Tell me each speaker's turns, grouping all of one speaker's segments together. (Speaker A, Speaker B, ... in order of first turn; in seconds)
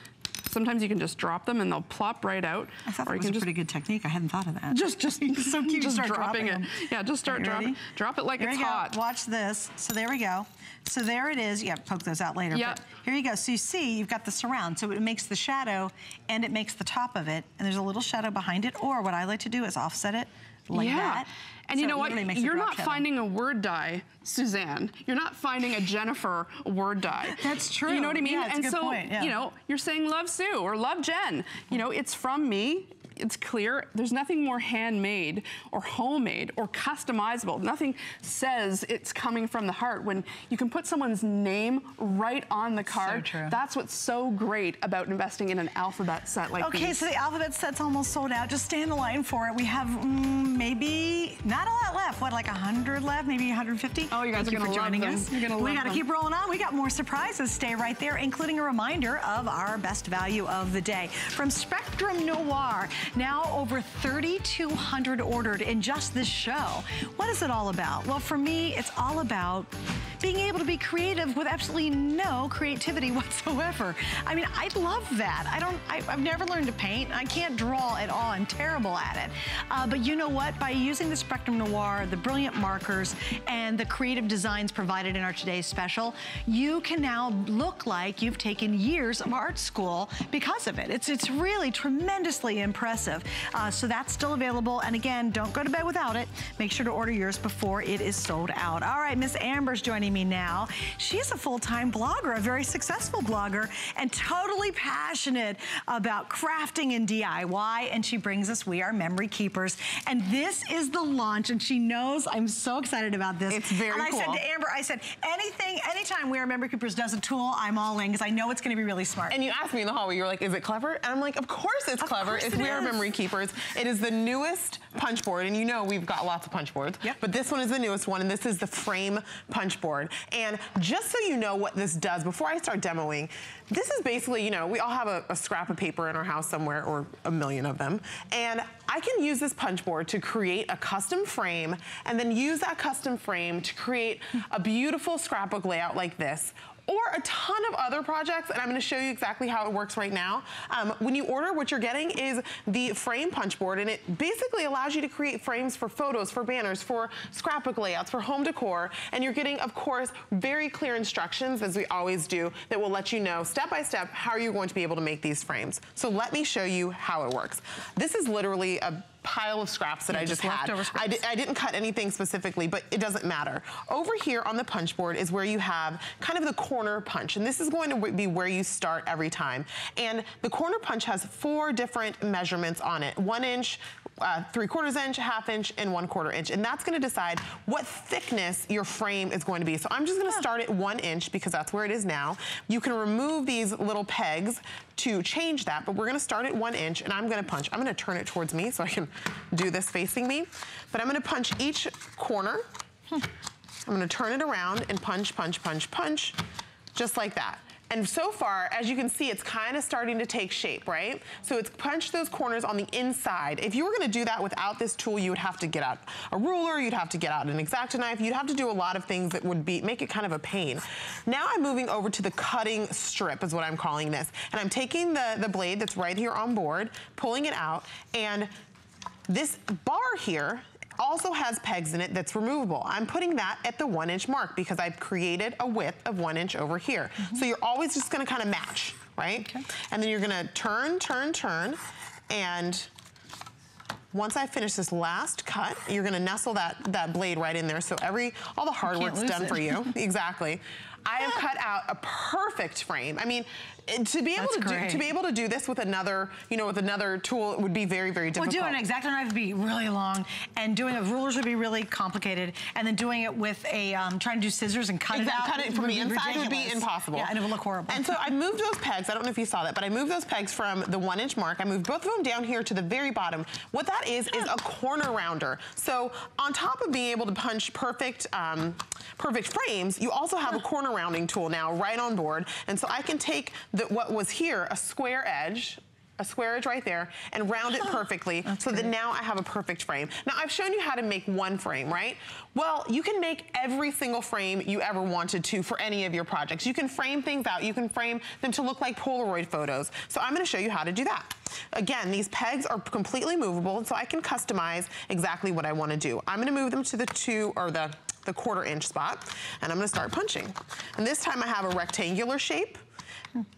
Speaker A: 0.4-3.5, 4.7-9.0, 12.5-12.8, 20.7-47.1, 54.1-56.1
Speaker B: 2.9-7.8, 8.4-23.1, 27.2-29.3, 42.9-43.6, 46.6-119.4, 122.0-123.1, 170.1-171.2, 248.8-249.9, 251.2-251.4, 254.4-255.1, 258.4-268.2, 288.5-288.9
Speaker C: 113.5-114.4, 119.3-202.7, 203.9-206.4, 206.9-228.5, 229.3-242.9, 244.1-258.8, 265.1-312.8